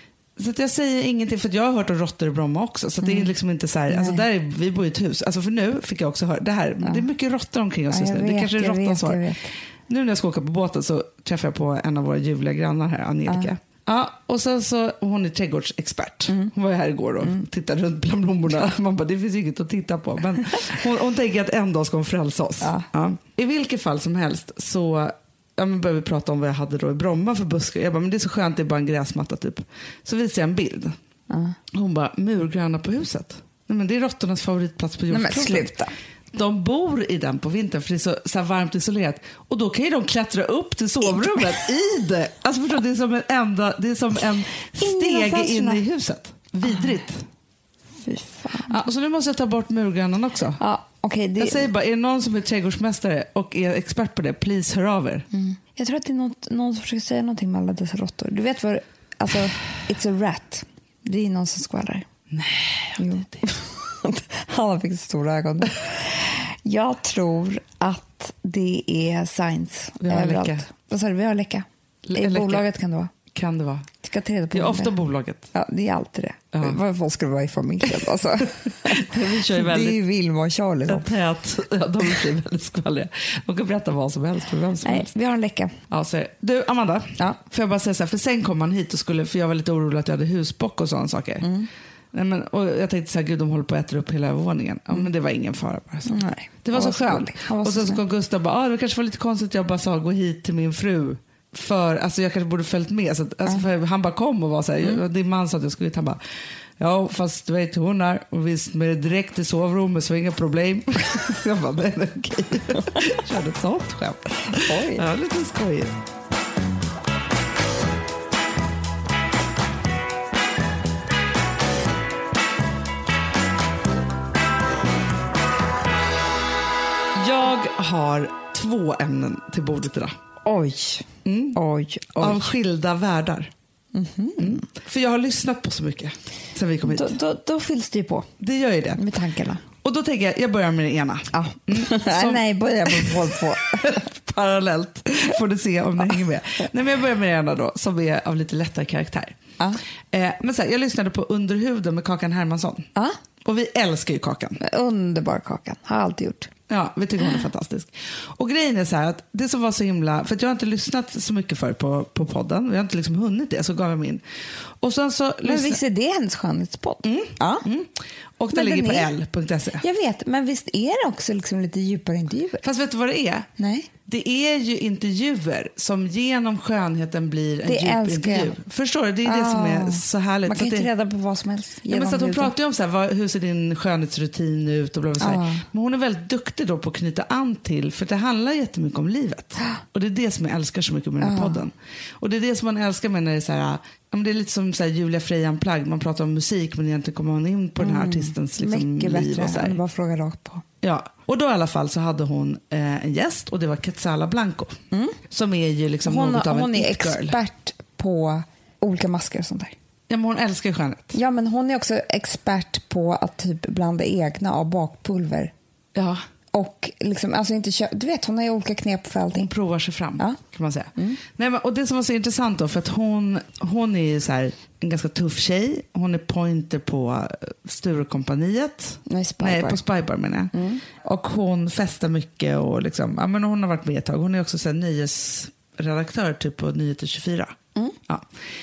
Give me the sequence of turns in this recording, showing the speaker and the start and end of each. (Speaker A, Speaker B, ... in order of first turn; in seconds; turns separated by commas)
Speaker A: 0.4-9.2, Speaker B: 3.0-3.3, Speaker B: 3.9-4.2, Speaker B: 7.9-9.5, Speaker A: 9.9-30.9, Speaker B: 16.3-16.5, Speaker B: 22.6-22.9, Speaker B: 31.3-31.6, Speaker A: 31.7-35.7, Speaker B: 35.1-35.9, Speaker A: 36.3-47.2, Speaker B: 41.0-41.6, Speaker B: 44.8-45.8, Speaker B: 48.0-48.8, Speaker A: 48.6-50.6, Speaker B: 50.6-51.7, Speaker A: 51.4-55.3, Speaker B: 55.3-62.1, Speaker A: 62.3-63.2, Speaker B: 63.0-73.1, Speaker A: 70.0-70.6, Speaker A: 72.0-72.6, Speaker A: 73.3-73.9, Speaker B: 74.0-75.0, Speaker A: 74.5-75.5, Speaker B: 75.5-81.1, Speaker A: 76.5-76.8, Speaker A: 78.7-80.0, Speaker A: 80.9-85.1, Speaker B: 84.8-85.8, Speaker A: 85.9-91.5, Speaker B: 91.4-91.7, Speaker A: 92.1-106.2, Speaker B: 96.0-98.0, Speaker A: 106.8-115.9, Speaker B: 114.5-115.0, Speaker A: 127.1-130.2, Speaker B: 130.4-132.5, Speaker A: 131.2-131.6, Speaker A: 132.1-133.5, Speaker B: 133.9-134.6, Speaker A: 134.4-137.2, Speaker B: 136.8-138.3, Speaker A: 138.4-139.0, Speaker B: 138.9-139.6, Speaker A: 139.8-149.4, Speaker B: 141.3-144.1, Speaker A: 150.1-152.9, Speaker A: 153.4-154.6, Speaker B: 154.6-156.5, Speaker A: 156.7-164.2, Speaker A: 164.8-165.8, Speaker B: 165.4-167.6, Speaker A: 167.0-169.8, Speaker B: 168.5-169.1, Speaker B: 169.8-172.6, Speaker A: 172.6-173.5, Speaker B: 173.6-173.9, Speaker A: 174.1-180.9, Speaker B: 177.6-178.6, Speaker B: 179.2-182.5, Speaker A: 181.9-199.8, Speaker B: 185.2-185.6, Speaker B: 191.2-191.7, Speaker B: 197.8-200.6, Speaker A: 200.8-204.8, Speaker B: 204.9-205.2, Speaker A: 205.3-207.4, Speaker B: 206.0-209.7, Speaker A: 210.1-211.2, Speaker B: 211.1-215.5, Speaker A: 215.9-216.2, Speaker B: 216.5-219.5, Speaker A: 219.3-237.6, Speaker B: 229.1-229.8, Speaker B: 230.5-230.8